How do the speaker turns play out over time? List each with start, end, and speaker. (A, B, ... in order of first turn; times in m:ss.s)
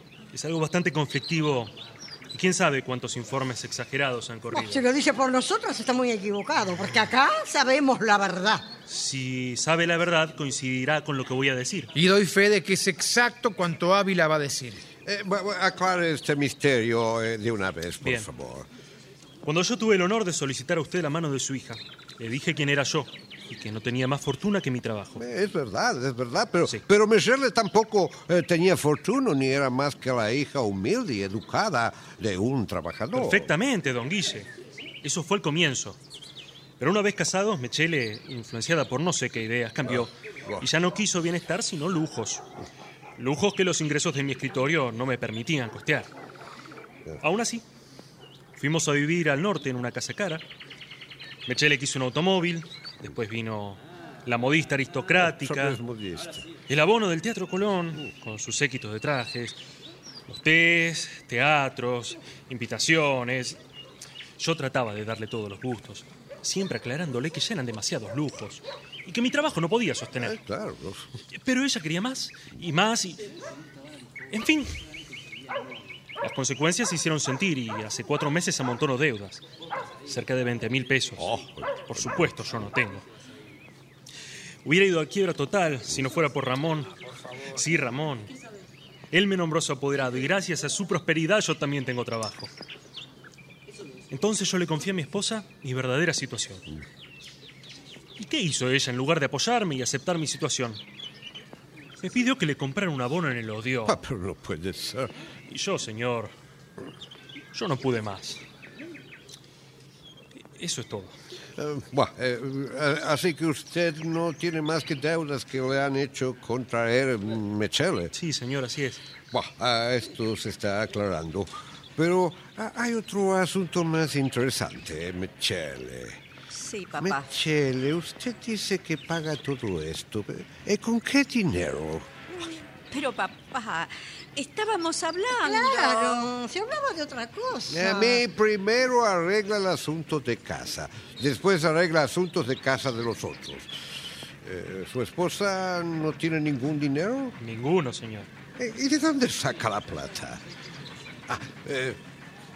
0:00.3-0:01.7 A
0:02.3-0:04.8 A
0:04.5-0:08.7 B
0:08.9-0:11.9 A
0:12.0-0:14.8 C
0:15.0-0:18.7 D
0:18.0-0:18.3 A
0:19.4-0:25.2 A
0:25.2-0:33.5 D
0:33.1-0:34.5 A
0:35.0-0:36.0 A
0:36.8-0:42.5 A
0:39.9-0:40.7 D
0:43.2-0:46.1 A
0:47.2-0:47.6 A
0:48.6-0:50.4 A
0:51.5-0:55.8 A
0:55.2-0:56.4 D
0:56.7-0:59.6 A
1:00.3-1:03.6 A
1:04.4-1:10.4 A
1:10.2-1:11.1 D
1:11.3-1:13.2 A
1:14.3-1:14.7 A
1:16.2-1:19.4 A
1:20.1-1:23.1 A
1:21.2-1:22.3 D
1:24.6-1:26.9 A
1:27.5-1:28.3 A
1:29.1-1:32.5 A
1:34.1-1:36.7 A
1:38.2-1:40.8 A
1:42.0-1:44.0 A
1:43.9-1:45.1 D
1:45.5-1:46.3 A
1:47.5-1:48.4 A
1:50.6-1:51.2 A
1:51.6-1:58.1 D
1:58.1-1:59.0 A
1:59.3-2:06.2 D
2:06.5-2:07.3 E
2:07.0-2:12.1 D
2:12.9-2:16.3 E
2:15.4-2:18.2 B
2:17.7-2:23.7 D
2:24.4-2:27.4 D
2:27.4-2:28.3 A
2:28.6-2:30.4 D
2:31.3-2:32.0 D